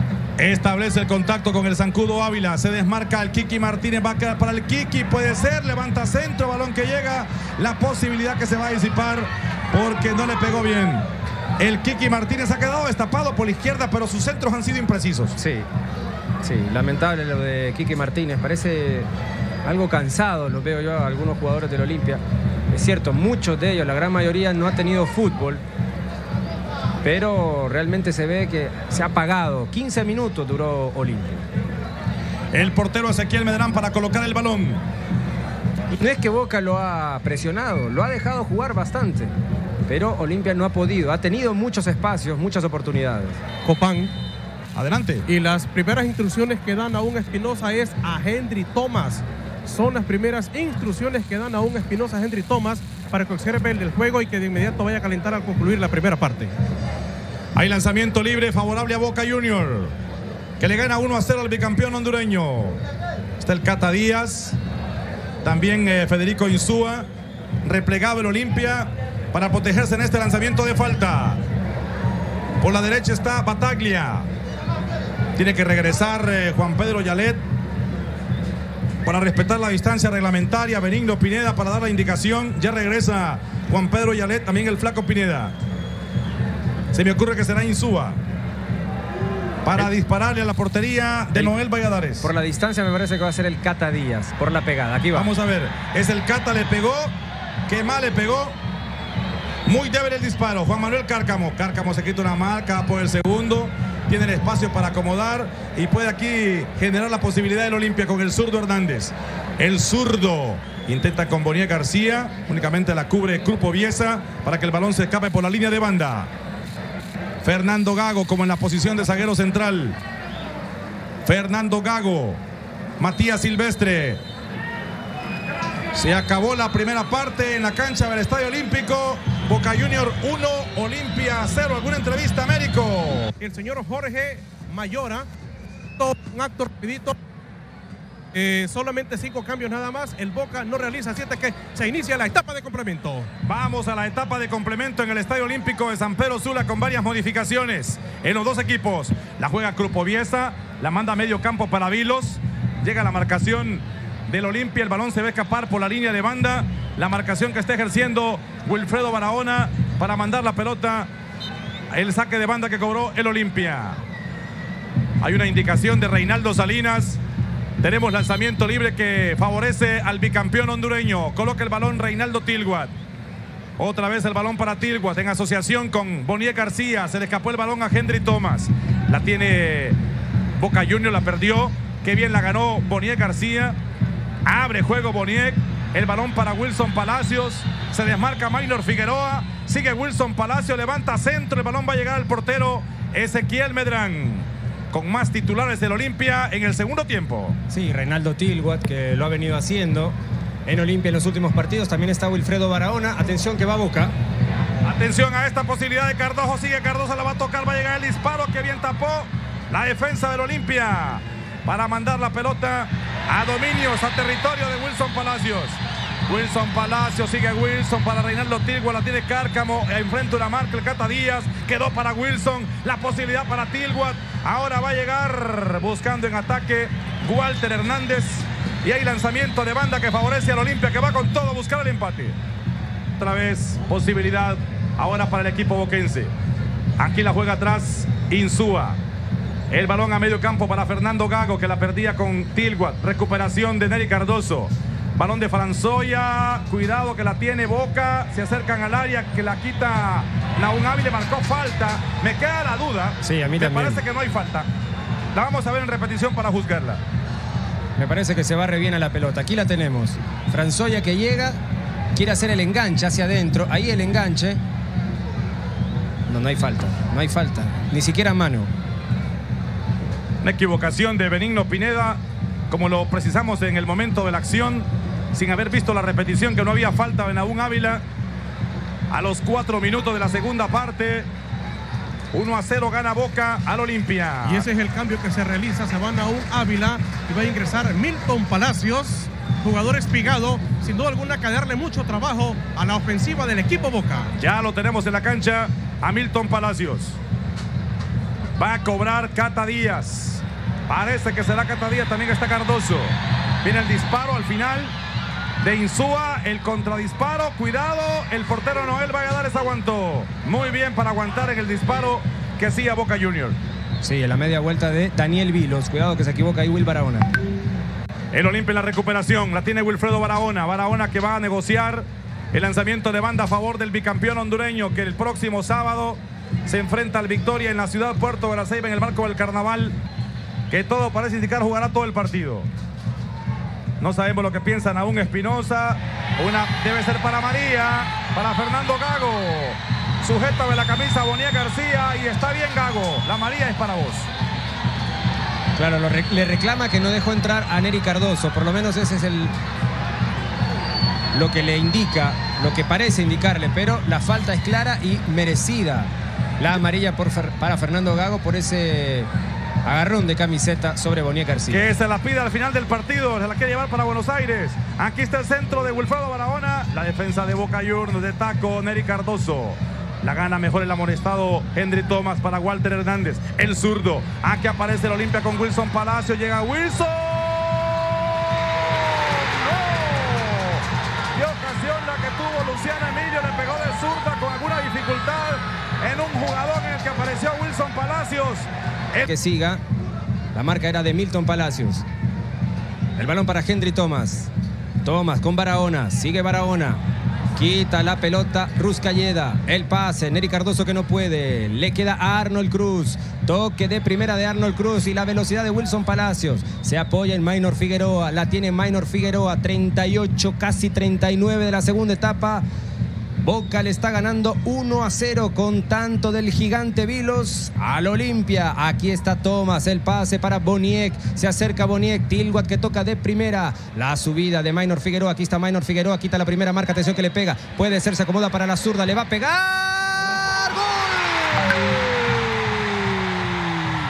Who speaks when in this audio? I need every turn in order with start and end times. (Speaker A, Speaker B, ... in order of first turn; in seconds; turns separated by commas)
Speaker A: 0.4-11.1, Speaker A: 11.6-15.4, Speaker B: 15.4-15.7, Speaker B: 16.4-19.1, Speaker B: 19.6-22.2, Speaker B: 22.7-25.6, Speaker B: 27.0-31.4, Speaker A: 32.5-34.8, Speaker B: 35.9-39.3, Speaker B: 39.9-43.4, Speaker C: 43.6-44.1, Speaker A: 44.7-45.3, Speaker C: 45.3-56.5, Speaker A: 57.5-59.9, Speaker A: 60.6-62.8, Speaker A: 63.4-64.6, Speaker A: 65.4-67.1, Speaker A: 67.6-71.4, Speaker A: 72.6-74.3, Speaker A: 75.3-77.4, Speaker A: 79.0-85.5, Speaker A: 86.9-88.2, Speaker A: 89.6-92.3, Speaker B: 92.2-95.3, Speaker A: 95.1-97.2, Speaker A: 97.7-98.6, Speaker A: 99.7-116.3, Speaker A: 117.4-120.0, Speaker A: 121.2-122.4, Speaker A: 123.0-124.2, Speaker A: 125.9-133.3, Speaker C: 133.4-135.3, Speaker C: 136.0-137.2, Speaker C: 138.3-143.3, Speaker A: 143.4-161.1, Speaker A: 161.9-164.0, Speaker A: 165.2-167.2, Speaker A: 167.8-172.9, Speaker A: 173.8-180.0, Speaker A: 180.6-183.8, Speaker A: 184.4-197.6, Speaker B: 197.7-204.1, Speaker A: 204.8-232.3, Speaker A: 233.2-236.3, Speaker A: 237.0-239.0, Speaker A: 239.7-254.7, Speaker B: 253.2-254.0, Speaker A: 255.3-257.0, Speaker B: 258.0-261.6, Speaker B: 262.1-264.6, Speaker B: 266.3-268.7, Speaker A: 270.4-278.0, Speaker A: 279.1-281.3, Speaker A: 282.3-284.7, Speaker C: 284.4-294.3, Speaker A: 294.4-297.2, Speaker A: 298.6-304.9, Speaker A: 305.6-313.6, Speaker B: 314.0-317.3, Speaker A: 318.3-330.0, Speaker A: 330.7-332.7, Speaker A: 334.0-344.3, Speaker B: 345.8-349.5, Speaker B: 351.3-359.3, Speaker B: 359.8-361.9, Speaker A: 361.7-389.3, Speaker B: 389.2-389.8, Speaker B: 390.5-392.0, Speaker B: 393.2-394.5, Speaker B: 395.0-397.0, Speaker B: 397.6-412.6, Speaker B: 413.4-433.4